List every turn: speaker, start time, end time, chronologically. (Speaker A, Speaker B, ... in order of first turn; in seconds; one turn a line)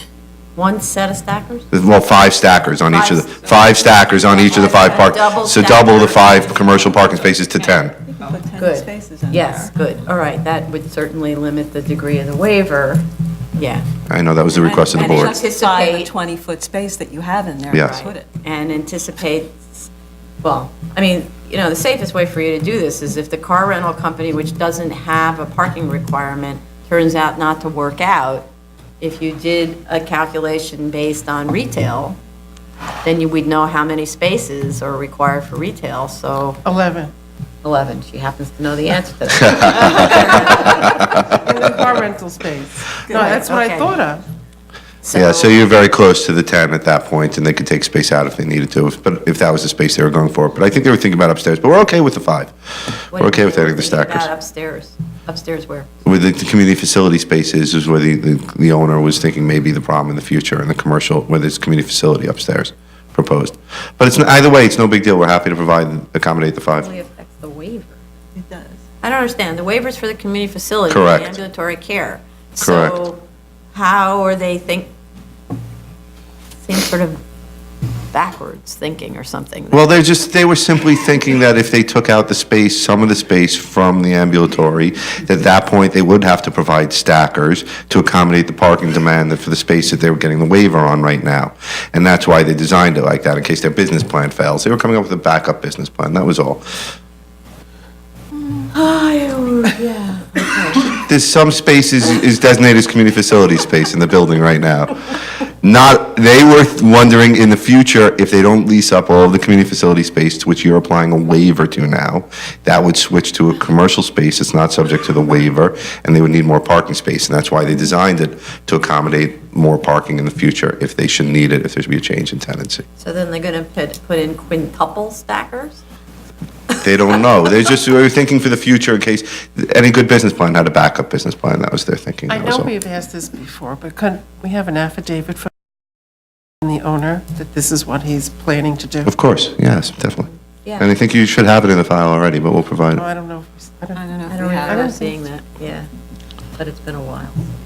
Speaker A: 0.6-1.7
Speaker B: 1.7-8.0
Speaker A: 3.0-7.0
Speaker C: 8.1-9.7
Speaker A: 8.5-13.9
Speaker B: 14.1-15.4
Speaker C: 14.5-18.3
Speaker A: 14.9-16.1
Speaker B: 17.7-18.0
Speaker A: 17.8-19.9
Speaker A: 20.4-28.5
Speaker A: 29.0-32.2
Speaker A: 33.0-36.6
Speaker D: 36.6-37.1
Speaker A: 37.6-41.0
Speaker D: 40.1-40.4
Speaker D: 41.1-44.2
Speaker A: 43.1-44.0
Speaker A: 45.0-45.6
Speaker B: 45.1-52.5
Speaker A: 53.1-55.9
Speaker B: 53.1-54.3
Speaker B: 56.0-66.9
Speaker A: 66.8-68.0
Speaker C: 68.3-68.8
Speaker A: 69.0-73.2
Speaker B: 70.9-71.4
Speaker B: 72.6-73.0
Speaker A: 73.7-74.9
Speaker A: 76.6-77.2
Speaker A: 78.1-79.8
Speaker B: 79.7-96.8
Speaker A: 98.7-100.9
Speaker B: 101.0-122.8
Speaker A: 123.0-125.8
Speaker B: 126.8-132.7
Speaker D: 132.3-135.5
Speaker D: 136.6-139.1
Speaker B: 139.1-143.0
Speaker D: 143.0-145.1
Speaker C: 143.9-145.0
Speaker A: 144.3-145.9
Speaker A: 146.6-147.4